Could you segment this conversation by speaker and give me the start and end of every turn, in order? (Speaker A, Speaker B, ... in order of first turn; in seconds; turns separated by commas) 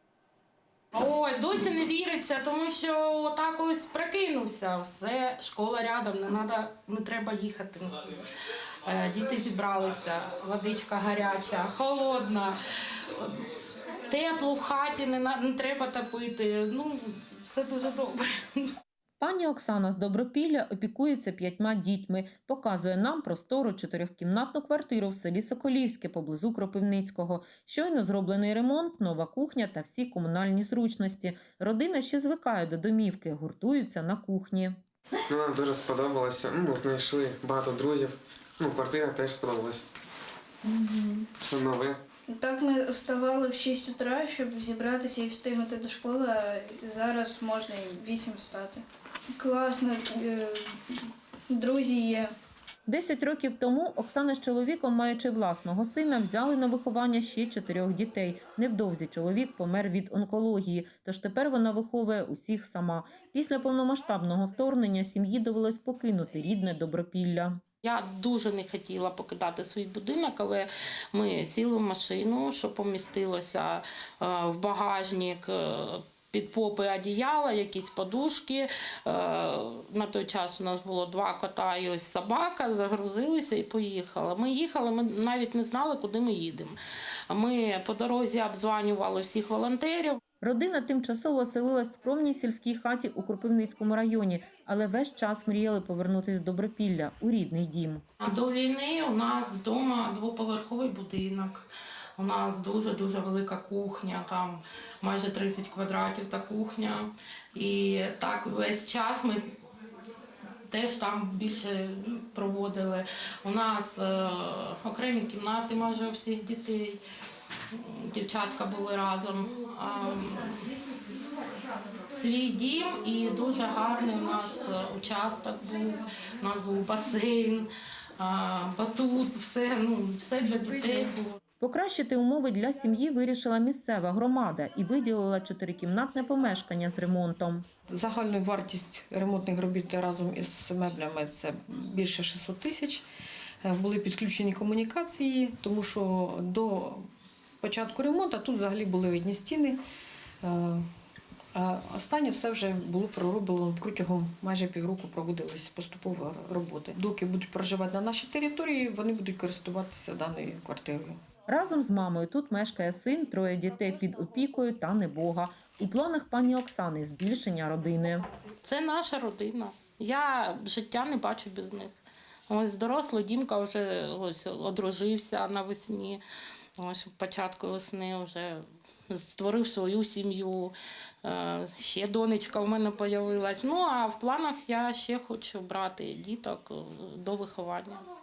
Speaker A: 0.9-8.2, Speaker A: 8.9-12.5, Speaker A: 14.1-18.7, Speaker B: 19.2-34.8, Speaker C: 35.3-39.8, Speaker C: 41.3-42.0, Speaker D: 42.3-48.8, Speaker D: 49.3-52.3, Speaker B: 52.9-67.6, Speaker A: 67.8-86.7, Speaker A: 87.3-90.2, Speaker B: 90.4-98.0, Speaker A: 98.2-101.7, Speaker A: 102.2-109.4, Speaker A: 110.7-117.0, Speaker A: 117.8-120.5, Speaker A: 122.1-127.7, Speaker A: 128.2-131.2, Speaker B: 131.6-137.7, Speaker E: 137.9-143.0, Speaker E: 143.6-147.1, Speaker E: 147.6-149.8, Speaker E: 150.4-150.8, Speaker E: 151.5-161.2, Speaker B: 161.5-168.3, Speaker A: 168.6-171.9, Speaker A: 172.5-176.2, Speaker A: 176.8-180.7, Speaker A: 181.2-188.0